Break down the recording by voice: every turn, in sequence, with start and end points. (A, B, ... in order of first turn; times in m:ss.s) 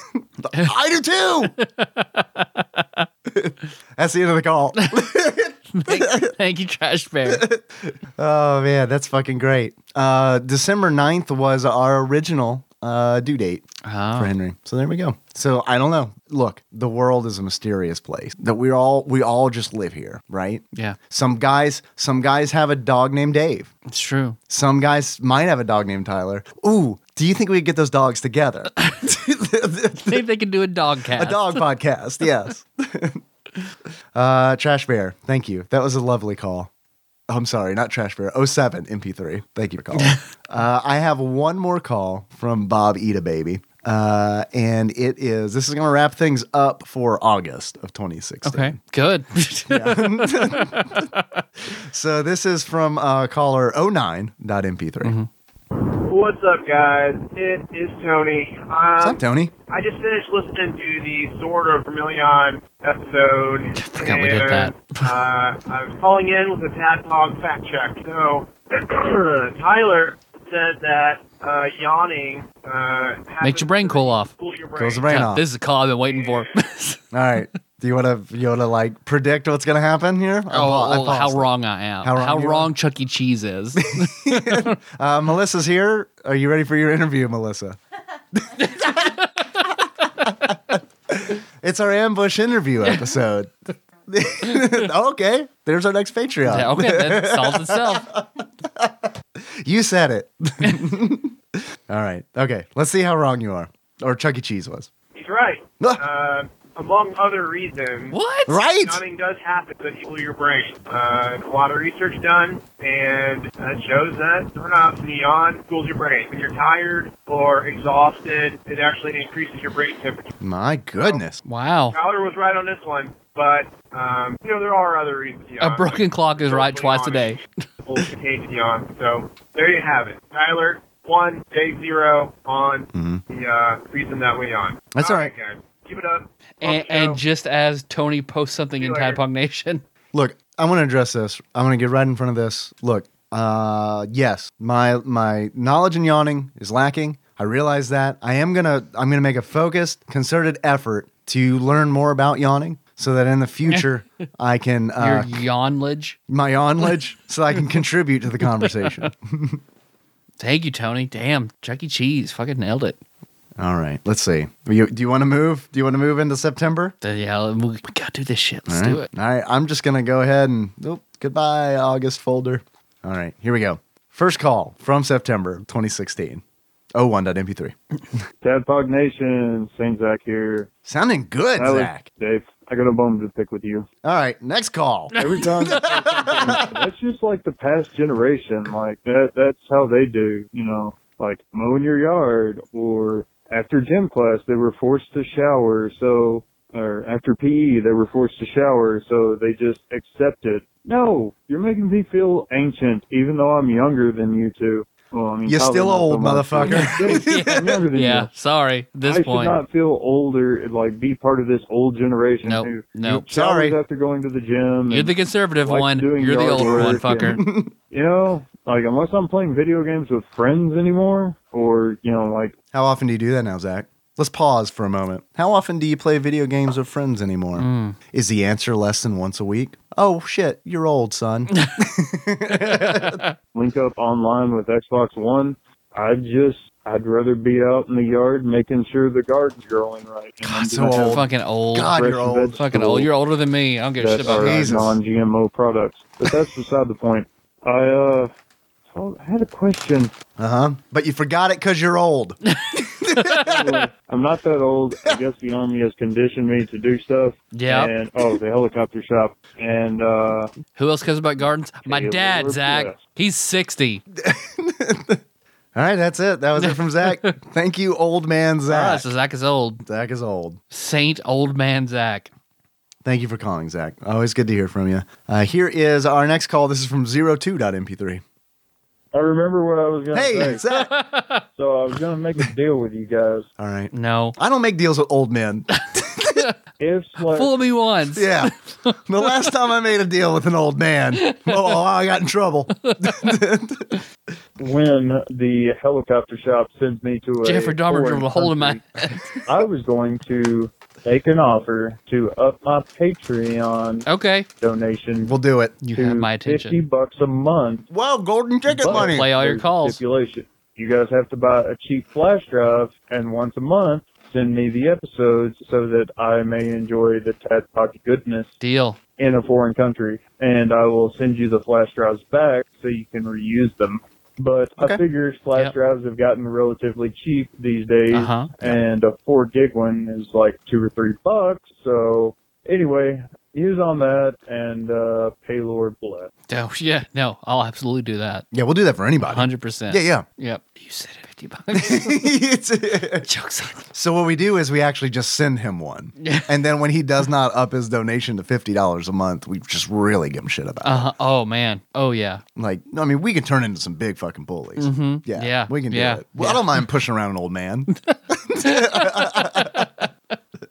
0:00.4-0:01.5 A
0:01.6-0:03.1 B
0:03.3-0:06.3 A
0:05.7-0:07.4 B
0:07.3-0:23.7 A
0:13.8-0:14.3 B
0:23.9-0:24.4 B
0:24.5-0:30.2 A
0:30.1-0:31.6 B
0:31.1-0:33.2 A
0:34.1-0:36.7 A
0:37.3-0:48.8 A
0:40.0-0:40.2 B
0:48.4-0:51.4 B
0:49.7-0:51.1 A
0:51.7-0:55.1 A
0:55.0-0:55.3 B
0:55.8-1:15.1 C
0:59.0-0:59.5 A
1:03.8-1:05.1 B
1:13.4-1:14.3 B
1:14.8-1:15.4 A
1:15.0-1:17.0 B
1:16.1-1:16.5 C
1:17.1-1:21.5 A
1:20.5-1:24.8 B
1:22.0-1:22.7 A
1:23.8-1:27.8 A
1:28.4-1:29.2 A
1:28.6-1:29.5 B
1:30.2-1:33.5 A
1:34.1-1:44.9 A
1:36.5-1:38.1 B
1:45.1-1:48.2 C
1:48.1-1:48.6 B
1:48.5-1:49.0 A
1:48.8-2:00.3 C
2:00.4-2:01.4 A
2:01.4-2:02.0 B
2:01.9-2:17.2 C
2:05.6-2:07.4 B
2:12.9-2:13.2 A
2:14.9-2:15.3 A
2:16.6-2:19.8 B
2:18.8-2:19.2 C
2:20.1-2:35.4 A
2:35.0-2:36.2 B
2:36.3-2:39.6 A
2:40.4-2:43.0 B
2:43.6-2:47.0 A
2:47.0-2:49.1 B
2:48.7-2:56.4 A
2:57.0-2:58.2 A
2:58.4-3:00.7 D
3:00.9-3:02.1 A
3:01.6-3:03.9 D
3:04.0-3:06.7 A
3:05.2-3:28.3 D
3:25.5-3:27.8 A
3:26.7-3:29.6 B
3:29.0-3:42.6 D
3:32.4-3:33.3 B
3:33.3-3:33.8 A
3:34.9-3:37.4 B
3:36.5-3:37.7 A
3:42.7-3:53.2 A
3:47.6-3:48.0 B
3:52.6-3:53.3 B
3:53.5-4:01.2 D
4:00.5-4:02.6 A
4:00.7-4:02.0 B
4:01.9-4:03.1 D
4:02.6-4:04.7 B
4:04.0-4:08.3 D
4:04.2-4:05.0 A
4:08.9-4:10.1 D
4:10.4-4:12.4 A
4:12.5-4:13.8 B
4:13.0-4:13.4 A
4:13.4-4:20.5 D
4:17.5-4:17.9 B
4:20.8-4:24.0 B
4:21.8-4:23.0 D
4:24.2-4:25.2 A
4:25.8-4:29.1 A
4:26.6-4:27.4 B
4:28.7-4:29.8 B
4:29.8-4:30.6 A
4:30.7-4:32.3 B
4:33.0-4:38.2 A
4:39.1-4:40.6 D
4:40.1-4:40.9 A
4:40.7-4:41.4 B
4:41.5-4:43.5 D
4:43.6-4:46.4 A
4:43.9-4:44.4 B
4:45.8-4:46.5 B
4:46.8-4:47.6 D
4:47.3-4:49.3 B
4:48.1-4:48.5 A
4:49.0-4:54.0 A
4:51.2-4:51.8 B
4:52.8-4:53.2 B
4:54.6-4:58.8 D
4:57.4-4:59.3 B
4:59.5-5:04.1 D
5:04.0-5:04.5 B
5:04.6-5:05.4 D
5:05.2-5:05.8 A
5:05.8-5:06.8 B
5:05.9-5:07.9 D
5:07.9-5:09.3 A
5:08.7-5:18.6 D
5:08.8-5:10.0 B
5:18.6-5:19.0 B
5:19.2-5:36.3 D
5:28.1-5:28.5 B
5:36.5-5:38.5 B
5:38.5-5:40.2 A
5:39.2-5:42.3 B
5:41.7-5:43.3 A
5:43.2-5:43.9 B
5:43.9-5:51.1 A
5:46.2-5:46.5 B
5:50.8-5:52.4 B
5:52.6-6:00.0 A
5:54.8-5:56.8 B
5:58.1-6:00.1 B